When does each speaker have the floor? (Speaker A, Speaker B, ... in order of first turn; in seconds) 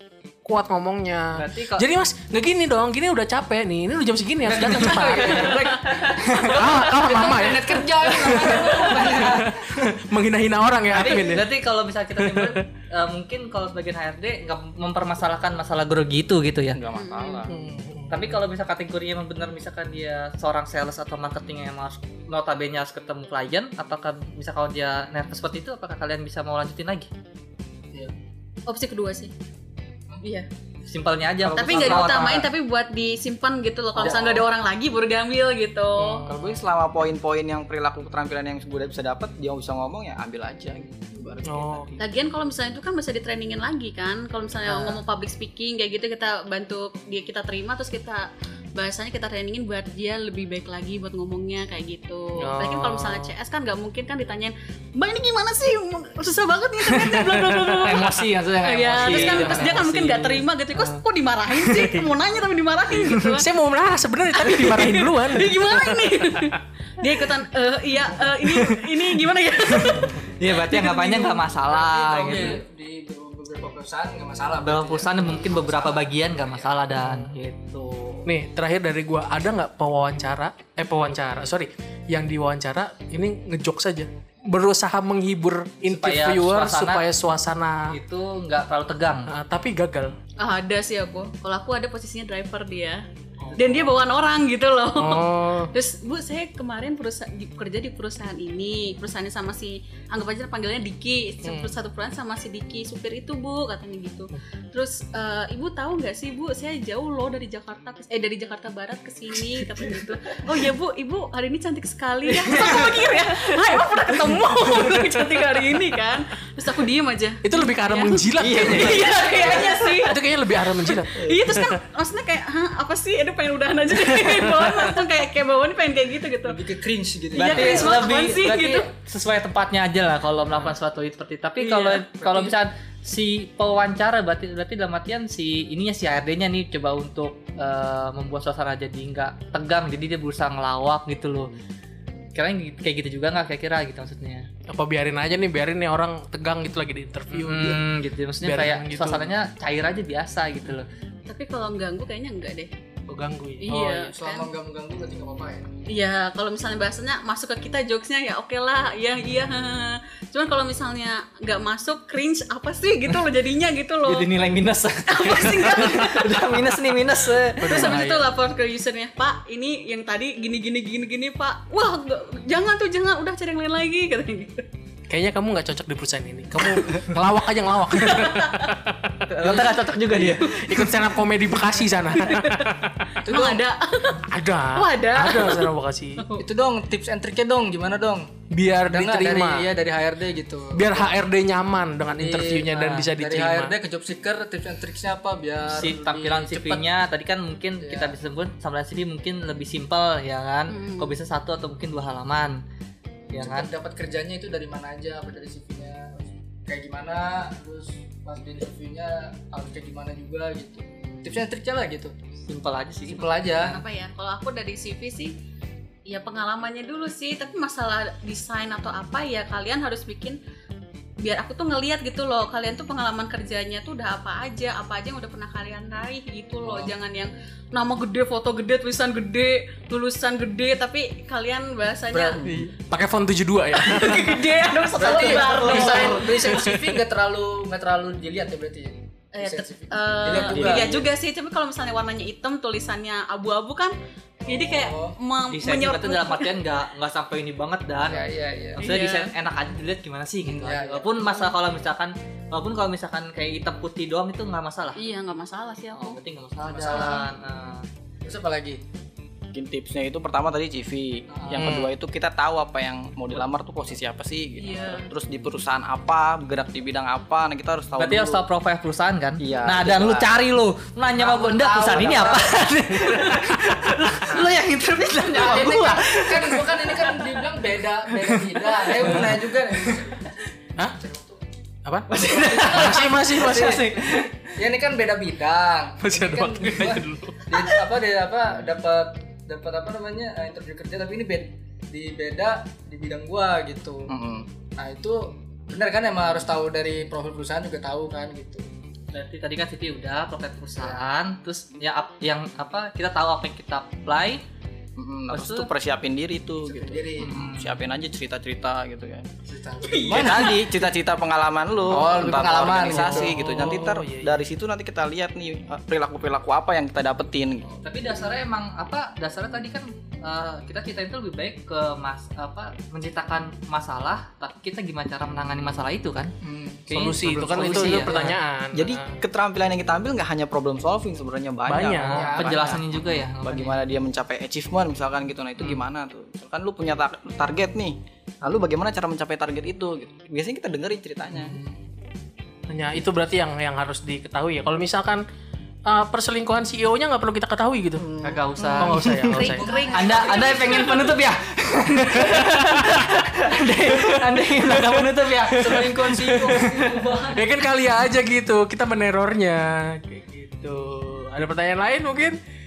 Speaker A: 0.4-11.5, 12.2-12.6, 17.5-18.4, 36.0-36.3, 41.4-42.0, 44.7-45.0, 52.4-53.3, 57.0-58.0, 59.0-60.0, 61.7-62.0, 63.3-66.6, 77.0-77.3, 78.2-87.9, 89.3-90.1, 95.0-95.7, 101.4-101.7, 114.2-115.8, 117.4-121.8, 123.9-125.0, 144.7-147.8, 148.4-149.3, 153.1-153.8, 167.6-168.3, 175.1-183.0, 184.2-186.2, 188.5-189.7, 190.7-193.7, 232.9-234.7, 235.7-237.0, 261.5-261.9, 273.1-274.2, 281.8-283.9, 286.0-287.7, 312.8-314.4, 326.9-329.2, 331.7-332.4, 342.7-345.2, 345.9-348.1, 348.8-349.6, 351.9-356.6, 357.3-362.4
Speaker B: 1.3-1.9, 4.5-7.3, 8.0-9.4, 10.9-16.8, 18.1-27.1, 30.9-32.5, 57.8-60.4, 68.5-69.0, 69.7-72.6, 74.6-78.2, 85.9-87.0, 87.9-89.3, 127.3-141.5, 142.3-144.5, 147.3-150.9, 164.0-168.0, 179.2-180.8, 192.7-193.1, 195.7-202.6, 203.3-203.7, 212.5-213.7, 235.0-235.5, 245.5-255.0, 255.9-257.9, 268.0-277.4, 278.1-280.2, 282.1-284.6, 299.1-304.4, 305.3-305.7, 307.2-307.8, 317.8-326.3, 326.9-328.4, 332.1-333.8, 348.2-357.0
Speaker C: 4.5-9.9, 34.0-34.4, 70.4-76.7, 119.2-119.6, 126.4-128.0, 131.6-132.5, 153.7-155.7, 183.2-183.6, 186.3-188.3, 188.9-191.1, 192.2-196.8, 197.8-198.1, 203.3-212.1, 213.1-213.8, 232.1-232.7, 234.9-241.1, 244.4-245.2, 248.0-248.8, 250.4-251.2, 256.6-257.2, 258.2-258.8, 261.3-261.7, 271.1-272.5, 275.3-280.3, 280.8-281.4, 282.3-294.1, 294.8-298.6, 300.8-301.0, 306.6-307.4, 309.4-310.6, 311.9-313.4, 326.4-326.9, 327.6-327.9, 332.1-332.8, 349.4-351.2, 355.5-357.5
Speaker D: 16.7-17.5, 31.4-32.3, 36.2-42.0, 118.4-119.8, 240.5-241.0, 259.5-268.4, 269.4-270.3, 271.9-272.4, 294.1-294.5, 305.0-309.3, 310.0-317.7, 327.9-341.6, 348.0-348.5
Speaker E: 16.9-17.5, 28.7-29.3, 30.2-30.5, 31.5-36.3, 42.0-63.5, 64.3-70.2, 90.4-93.0, 93.5-126.6, 127.3-128.9, 151.3-152.7, 153.6-154.5, 155.9-164.3, 165.1-166.7, 167.6-174.7, 178.0-178.8, 182.1-182.7, 183.2-186.4, 200.7-201.1, 213.6-215.3, 216.1-220.4, 221.2-232.4, 233.7-236.6, 239.3-243.9, 244.5-246.6, 248.8-249.3, 255.0-256.2, 256.9-257.3, 264.6-265.1, 309.9-310.6, 349.3-351.2